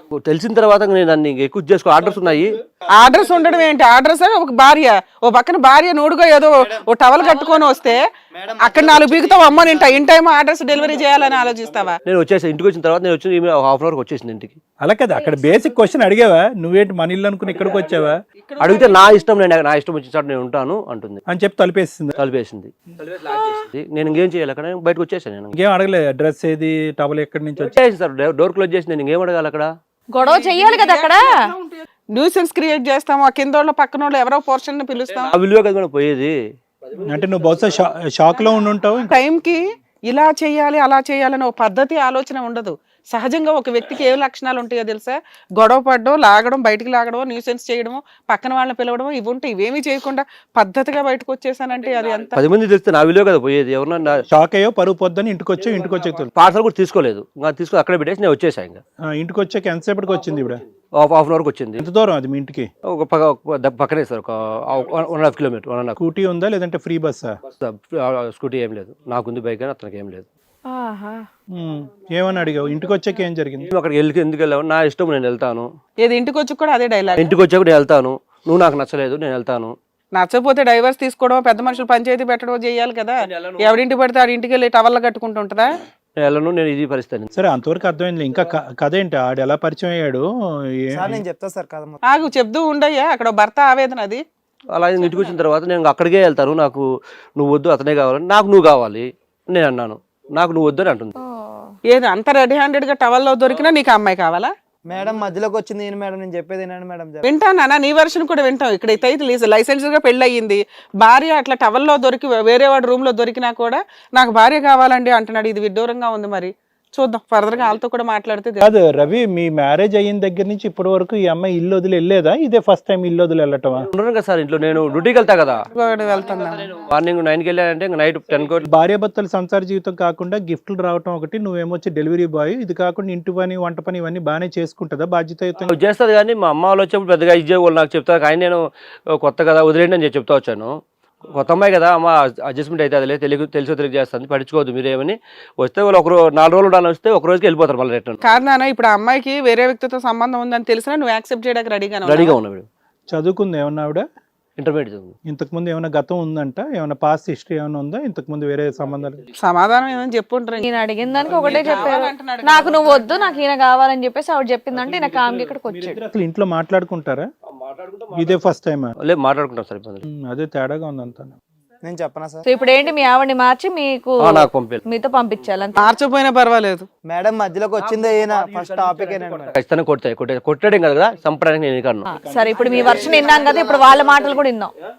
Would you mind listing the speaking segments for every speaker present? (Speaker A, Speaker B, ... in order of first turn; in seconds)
Speaker A: 0.1-2.6, 12.0-14.6, 18.6-21.2, 22.2-25.6, 27.6-29.7, 35.1-37.8, 52.3-54.2, 56.3-58.8, 61.0-61.8, 62.9-66.0, 67.5-70.3, 73.7-75.7, 77.2-79.7, 83.4-83.7, 86.2-87.3, 94.7-96.8, 97.4-101.2, 123.9-125.6, 126.6-128.7, 135.7-138.6, 139.1-140.7, 141.3-148.2, 152.1-152.7, 154.6-155.1, 167.5-168.4, 169.0-170.0, 174.2-174.8, 177.9-182.1
Speaker B: 2.9-8.0, 8.6-12.0, 18.5-19.2, 30.2-35.3, 39.0-52.4, 76.0-77.3, 80.1-85.8, 92.0-94.2, 101.9-104.5, 107.2-118.7, 125.7-126.7, 148.2-152.4, 159.4-160.7, 161.2-163.5, 175.7-176.9
Speaker C: 8.3-10.0, 10.8-11.7, 90.9-92.0, 104.9-107.3, 171.8-172.4, 177.1-179.6, 182.6-184.4
Speaker D: 14.8-18.2, 21.3-22.1, 25.5-27.7, 37.0-39.2, 54.3-56.3, 59.1-60.6, 61.8-62.7, 66.0-67.4, 71.5-73.7, 87.3-91.2, 118.6-123.9, 128.7-135.8, 153.1-154.1, 155.2-159.2, 161.1-162.0, 164.7-167.3, 168.1-168.9, 170.1-171.3, 178.8-179.2, 182.1-183.6
Speaker E: 30.1-31.5, 70.7-71.2, 101.2-101.7, 160.6-166.0, 172.4-175.9, 182.1-184.7